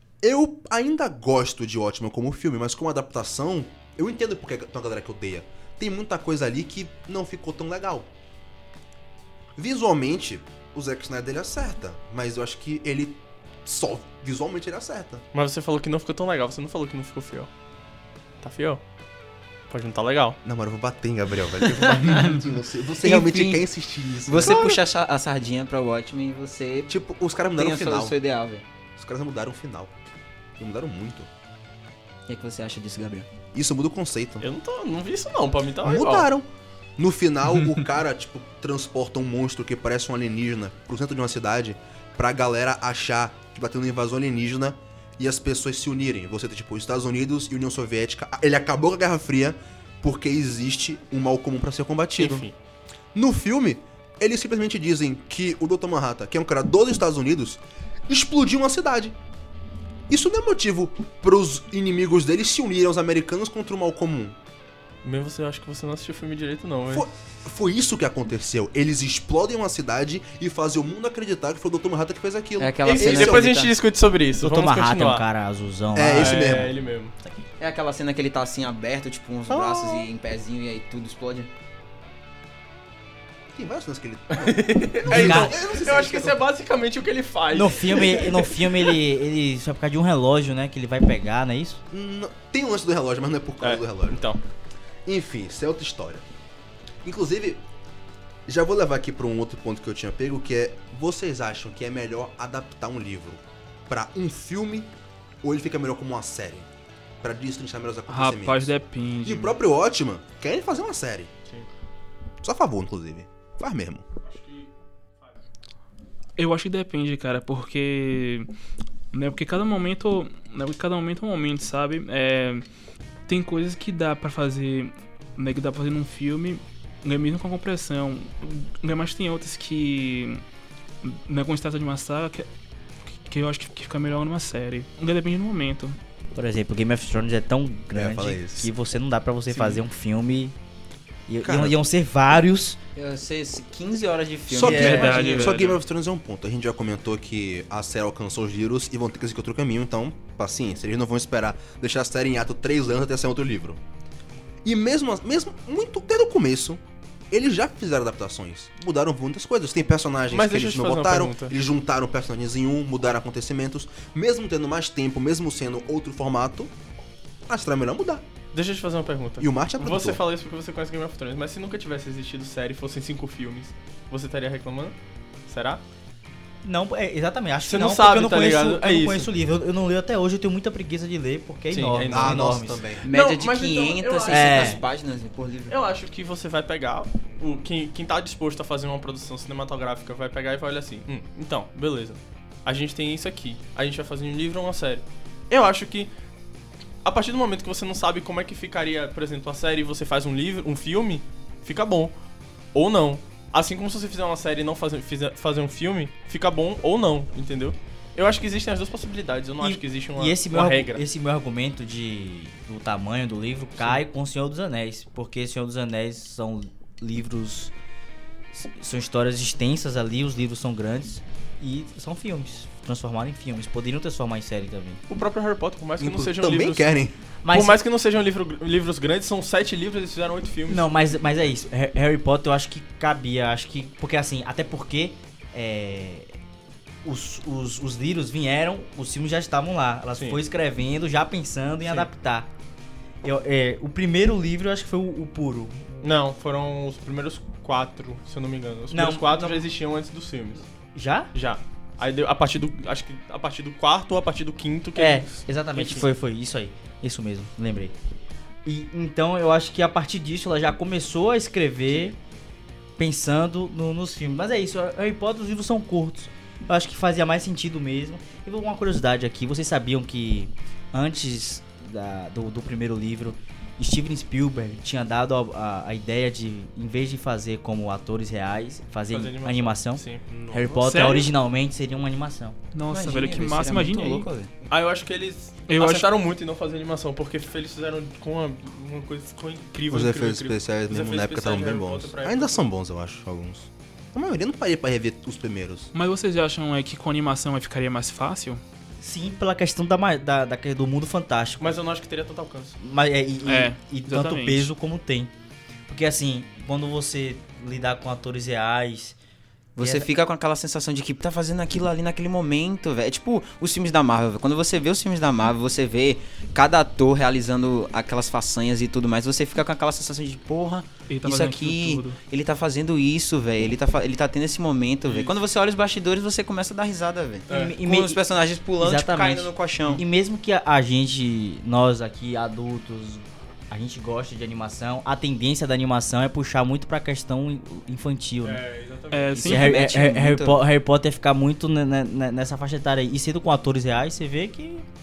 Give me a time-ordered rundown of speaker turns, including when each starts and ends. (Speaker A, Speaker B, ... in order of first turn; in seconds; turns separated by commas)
Speaker A: 0.2-8.1, Speaker A: 9.6-15.2, Speaker B: 15.3-17.5, Speaker B: 18.4-18.8, Speaker B: 19.7-20.4, Speaker A: 20.4-24.8, Speaker C: 21.6-22.4, Speaker C: 23.0-23.6, Speaker C: 24.3-27.0, Speaker A: 26.9-28.2, Speaker C: 27.6-28.7, Speaker A: 29.0-29.9, Speaker A: 30.6-31.3, Speaker C: 32.3-33.3, Speaker A: 33.5-34.5, Speaker B: 34.4-36.3, Speaker A: 35.8-52.5, Speaker B: 52.2-52.5, Speaker A: 53.1-59.2, Speaker A: 60.1-64.4, Speaker B: 65.0-67.1, Speaker A: 66.9-73.6, Speaker C: 72.6-73.8, Speaker B: 72.8-75.3, Speaker D: 74.4-76.7, Speaker A: 75.9-76.8, Speaker B: 76.1-77.1, Speaker C: 77.6-81.5, Speaker A: 79.5-80.1, Speaker A: 83.5-86.4, Speaker B: 84.3-89.0, Speaker D: 85.1-85.6, Speaker D: 87.5-91.8, Speaker A: 91.9-94.2, Speaker B: 93.6-94.4, Speaker A: 95.1-96.2, Speaker A: 97.0-97.6, Speaker A: 98.5-106.7, Speaker A: 107.2-111.3, Speaker E: 108.1-109.6, Speaker A: 112.4-114.0, Speaker B: 114.2-114.7, Speaker E: 116.4-118.5, Speaker E: 119.1-122.7, Speaker E: 123.3-130.4, Speaker E: 131.0-132.5, Speaker E: 133.3-136.0, Speaker D: 136.3-140.6, Speaker A: 137.9-138.7, Speaker B: 139.5-139.8, Speaker D: 141.3-142.8, Speaker A: 141.4-141.8, Speaker C: 142.9-145.8, Speaker A: 144.5-153.8, Speaker D: 144.6-145.3, Speaker E: 144.6-145.7, Speaker A: 154.7-166.7, Speaker B: 160.3-161.5, Speaker A: 167.5-168.3, Speaker B: 168.5-174.9, Speaker A: 169.4-170.2, Speaker B: 175.5-175.8, Speaker D: 176.6-182.9, Speaker B: 177.7-179.3, Speaker B: 181.7-182.5, Speaker A: 182.1-183.1, Speaker B: 183.0-184.8, Speaker C: 183.1-185.8, Speaker D: 184.3-184.8, Speaker B: 185.7-196.1, Speaker B: 197.0-202.1, Speaker B: 202.7-211.0, Speaker D: 209.6-217.7, Speaker D: 218.5-225.0, Speaker B: 225.1-226.9, Speaker A: 226.0-227.1, Speaker D: 227.4-227.8, Speaker B: 227.5-230.9, Speaker D: 230.7-236.3, Speaker D: 237.1-242.5, Speaker D: 243.2-246.1, Speaker B: 246.0-250.7, Speaker D: 248.9-249.7, Speaker D: 250.9-251.3, Speaker B: 251.3-256.1, Speaker D: 254.9-257.9, Speaker D: 258.6-262.2, Speaker D: 263.0-282.6, Speaker B: 279.1-280.2, Speaker A: 280.3-281.1, Speaker E: 280.8-281.3, Speaker E: 282.7-284.3, Speaker C: 282.9-284.5, Speaker B: 284.7-292.7, Speaker E: 285.7-286.1, Speaker A: 289.9-295.9, Speaker E: 295.9-298.6, Speaker D: 299.0-301.8, Speaker B: 301.6-302.8, Speaker D: 302.8-305.3, Speaker E: 303.4-304.7, Speaker D: 305.9-309.2, Speaker C: 309.8-330.1, Speaker D: 309.8-310.1, Speaker E: 321.1-322.2, Speaker B: 325.1-325.4, Speaker B: 327.5-327.8, Speaker D: 327.5-328.2, Speaker D: 328.8-338.6, Speaker B: 338.4-339.5, Speaker E: 339.1-339.8, Speaker C: 339.4-340.6, Speaker D: 339.4-344.9